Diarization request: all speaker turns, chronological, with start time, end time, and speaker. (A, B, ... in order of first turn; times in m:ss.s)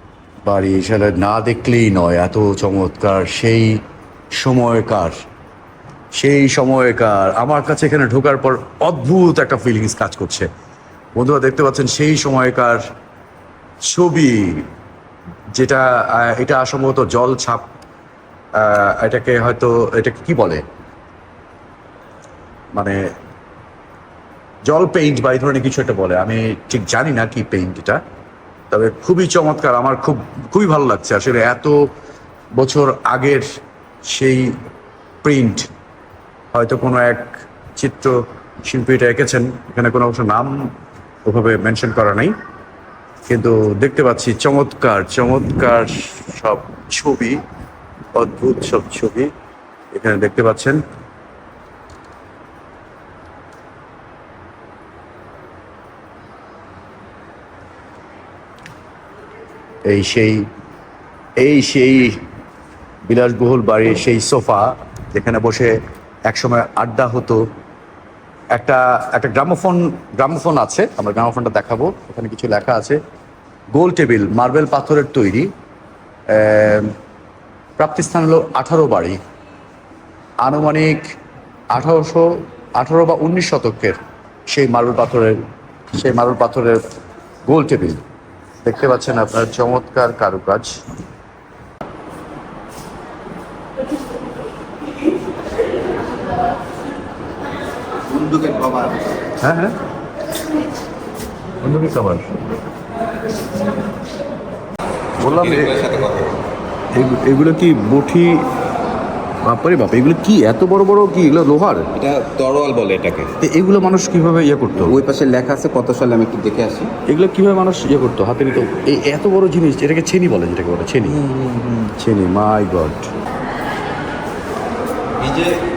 0:00.4-0:03.8 A
0:04.3-0:05.2 A
0:06.2-0:10.5 A
0:11.2-0:12.8 A
0:13.8-0:14.7 A
0:15.5-0:17.7 A
0:18.6-0:20.6 A
0:22.7-0:23.0 A
0:24.7-0:28.0 A
0:28.7-0:31.8 A
0:32.6-0:33.5 A
0:34.1-0:34.6 A
0:35.2-0:35.7 A
0:36.5-0:40.7 A
0:41.2-0:42.3 A
0:43.3-0:47.4 A
0:48.1-0:49.3 A
0:49.9-0:50.8 A
0:59.9-1:00.5 A
1:01.4-1:02.2 A
1:03.1-1:05.8 A
1:06.3-1:07.4 A
1:08.5-1:13.0 A
1:13.7-1:15.5 A
1:16.3-1:16.9 A
1:17.8-1:19.2 A
1:20.4-1:21.1 A
1:21.7-1:24.0 A
1:24.5-1:25.4 A
1:25.9-1:26.8 A
1:27.5-1:28.0 A
1:28.6-1:30.7 A
1:38.1-1:39.0 B
1:39.4-1:39.8 A
1:41.6-1:42.3 A
1:45.2-1:45.8 A
1:45.2-1:46.4 B
1:46.9-1:48.4 A
1:49.4-1:51.9 A
1:51.9-1:53.4 B
1:53.4-1:55.0 A
1:54.8-1:56.9 B
1:57.1-2:01.2 A
2:01.2-2:01.9 B
2:02.0-2:03.1 A
2:05.2-2:05.6 B